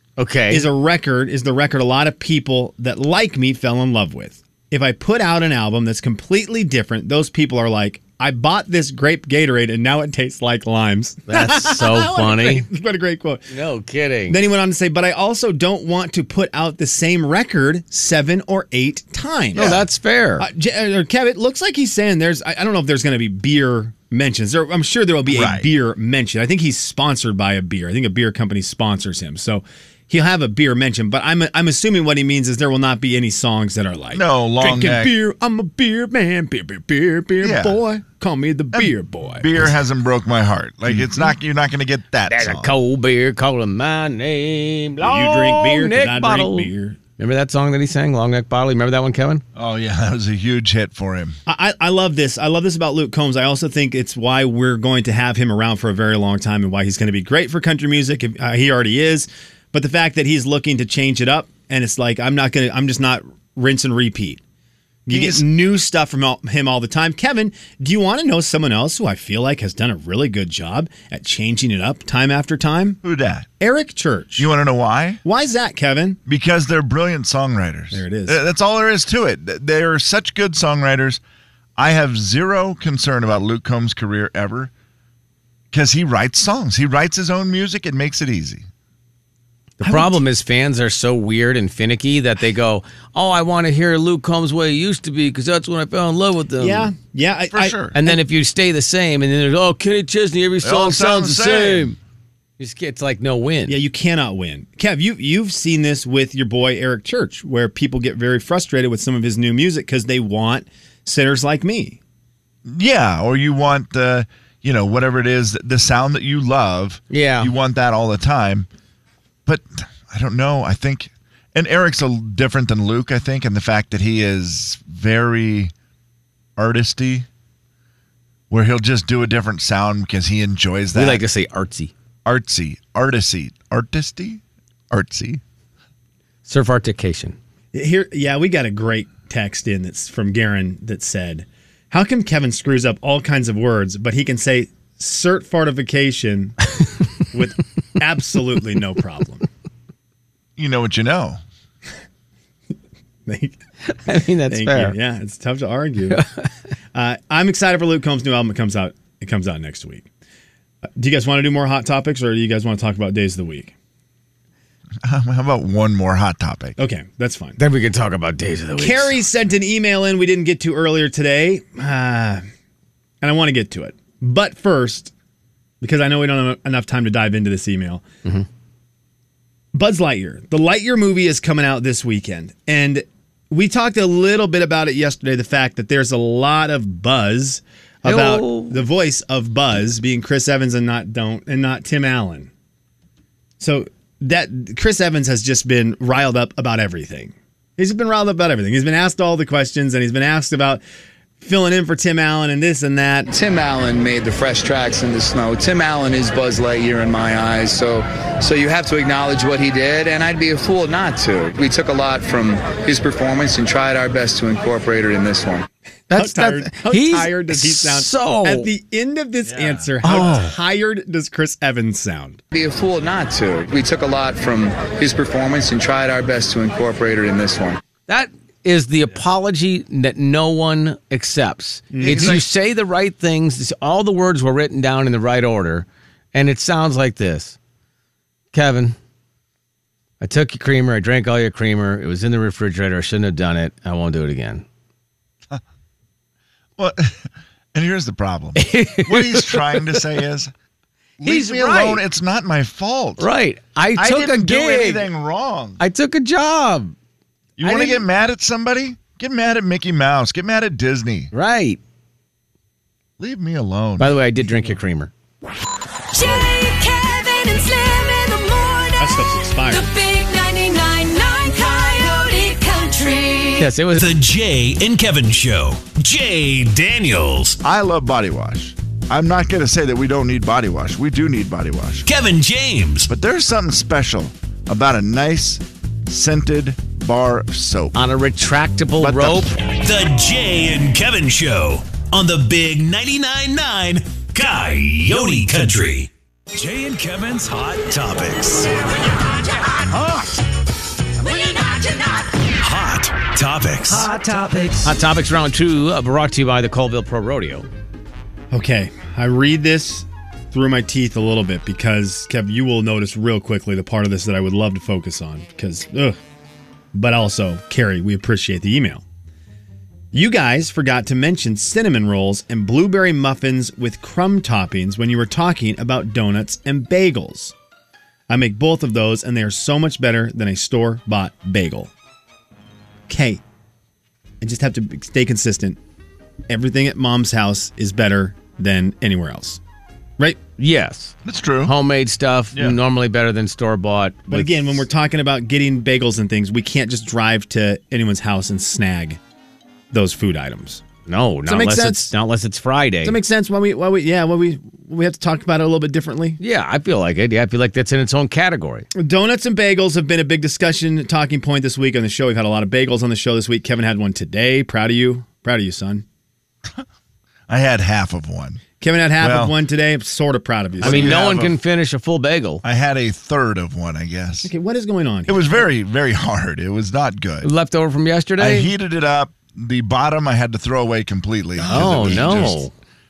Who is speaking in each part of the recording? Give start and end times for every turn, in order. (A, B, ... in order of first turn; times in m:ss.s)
0:00.2-0:00.7 A
0:00.5-0:13.5 B
0:11.3-0:12.6 A
0:13.5-0:14.4 A
0:14.3-0:19.8 B
0:19.5-0:20.5 A
0:19.5-0:19.8 C
0:20.4-0:39.7 B
0:25.3-0:25.7 C
0:34.1-0:35.1 C
0:37.4-0:37.8 C
0:38.7-0:42.7 C
0:40.9-0:41.3 B
0:42.3-0:49.4 A
0:45.0-0:47.0 B
0:49.5-0:51.4 C
0:51.4-1:04.4 B
1:05.0-1:13.0 B
1:05.1-1:05.4 C
1:13.0-1:13.5 C
1:13.6-1:14.5 B
1:14.4-1:15.2 C
1:15.2-1:16.2 B
1:16.3-1:21.2 C
1:17.9-1:18.4 B
1:21.8-1:24.7 C
1:25.7-1:28.7 C
1:29.8-1:30.2 B
1:29.8-1:36.9 A
1:36.6-1:38.2 B
1:37.5-1:37.9 C
1:37.9-1:42.0 A
1:40.6-1:41.9 C
1:42.6-1:43.8 A
1:43.7-1:52.0 B
1:52.6-1:58.7 C
1:57.1-1:57.5 A
1:59.4-2:05.7 C
2:06.6-2:07.3 C
2:08.5-2:11.2 C
2:10.9-2:11.9 A
2:12.2-2:15.4 C
2:16.4-2:17.4 A
2:17.7-2:29.5 B
2:30.6-2:31.4 C
2:33.2-2:33.6 B
2:33.8-2:35.0 A
2:34.4-2:36.2 B
2:36.1-2:36.4 A
2:36.9-2:40.0 B
2:41.0-2:43.7 B
2:45.0-2:46.8 C
2:46.8-2:47.6 B
2:47.6-2:49.2 A
2:48.8-2:52.4 B
2:53.2-2:55.1 B
2:55.8-2:58.0 B
2:59.7-3:12.5 B
3:08.0-3:08.8 A
3:13.6-3:20.8 B
3:21.4-3:23.3 B
3:23.3-3:35.7 D
3:36.1-3:38.7 A
3:36.1-3:42.4 B
3:40.0-3:40.4 A
3:40.0-3:40.5 C
3:42.5-3:47.8 D
3:48.1-3:57.6 A
3:51.9-3:52.4 B
3:52.0-3:52.4 C
3:58.5-3:59.0 A
4:00.2-4:04.6 A
4:06.8-4:10.5 C
4:08.6-4:10.0 A
4:11.2-4:13.3 C
4:11.2-4:12.0 A
4:13.2-4:15.1 A
4:13.9-4:15.8 C
4:15.8-4:16.9 A
4:17.6-4:21.3 C
4:17.6-4:18.0 A
4:21.3-4:21.8 A
4:23.2-4:24.2 C
4:24.0-4:25.1 A
4:26.1-4:33.7 E
4:29.0-4:29.9 B
4:33.6-4:34.0 A
4:34.0-4:37.6 F
4:37.6-4:42.1 C
4:42.0-4:43.1 F
4:43.0-4:48.0 C
4:47.9-4:49.6 A
4:49.0-4:49.5 C
4:49.7-4:58.7 F
4:59.9-5:00.3 F
5:01.2-5:02.1 E
5:02.5-5:04.8 F
5:04.8-5:07.7 A
5:08.5-5:16.2 B
5:16.9-5:19.0 B
5:20.1-5:27.5 B
5:28.3-5:31.9 B
5:33.1-5:33.4 B
5:34.4-5:35.8 B
5:36.5-5:39.6 B
5:40.6-5:44.8 A
5:41.2-5:41.7 C
5:42.5-5:42.8 C
5:44.3-5:49.2 B
5:49.9-5:50.8 B
5:51.1-5:53.2 A
5:51.5-5:52.1 B
5:53.0-5:56.4 B
5:56.4-5:58.9 A
5:59.0-6:06.0 B
6:07.5-6:08.6 C
6:08.8-6:11.2 B
6:09.2-6:09.6 C
6:10.8-6:11.6 C
6:10.8-6:12.6 A
6:12.6-6:14.5 C
6:14.4-6:15.6 B
6:15.3-6:17.5 C
6:17.4-6:18.7 A
6:18.4-6:22.6 C
6:21.7-6:22.7 A
6:21.7-6:22.5 B